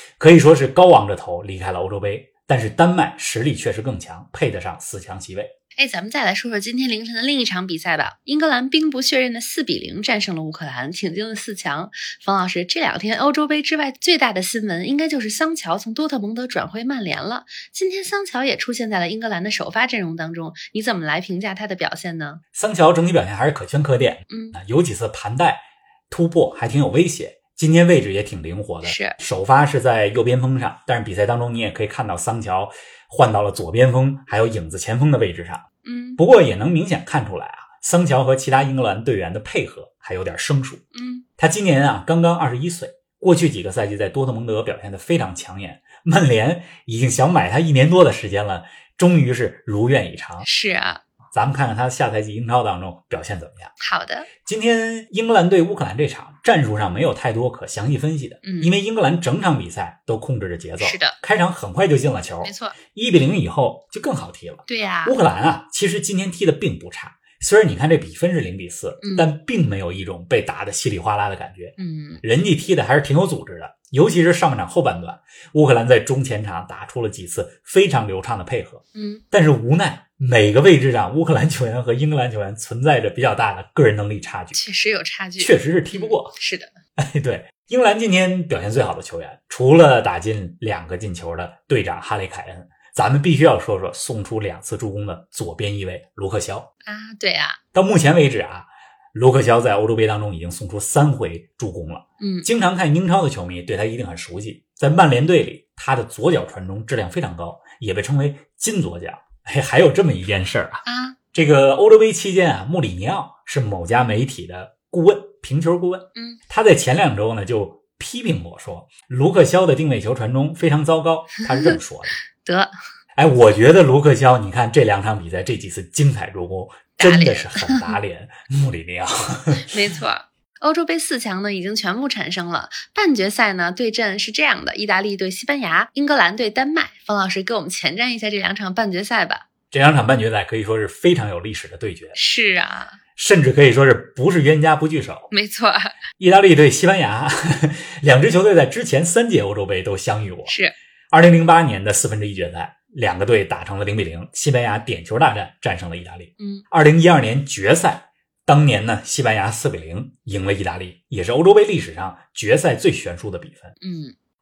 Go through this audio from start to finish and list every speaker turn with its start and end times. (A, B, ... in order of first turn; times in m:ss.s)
0:00.2-0:05.5 A
0:05.8-0:22.4 B
0:22.5-0:35.6 A
0:24.3-0:24.6 B
0:28.8-0:29.2 B
0:35.8-0:36.2 B
0:36.2-0:40.8 A
0:40.9-0:41.2 B
0:41.4-0:50.5 A
0:50.4-0:51.0 B
0:51.3-0:53.7 A
0:53.8-0:54.3 B
0:54.4-1:24.6 A
0:58.4-0:58.8 B
1:00.8-1:01.2 B
1:02.4-1:02.8 B
1:04.7-1:05.2 B
1:09.0-1:09.3 B
1:11.8-1:12.2 B
1:18.9-1:19.2 B
1:24.5-1:26.7 B
1:25.4-1:26.4 A
1:27.0-1:36.7 A
1:36.8-1:37.6 B
1:37.7-2:02.2 A
1:42.2-1:42.5 B
1:50.8-1:51.2 B
1:56.1-1:56.4 B
2:02.3-2:02.7 B
2:03.2-2:09.7 A
2:07.0-2:08.0 B
2:09.6-2:19.5 B
2:19.7-2:22.2 A
2:22.1-2:23.0 B
2:23.2-2:25.3 A
2:25.3-2:26.0 B
2:26.2-2:30.6 A
2:30.4-2:30.7 B
2:31.1-2:43.7 A
2:36.4-2:36.6 B
2:43.8-2:44.1 B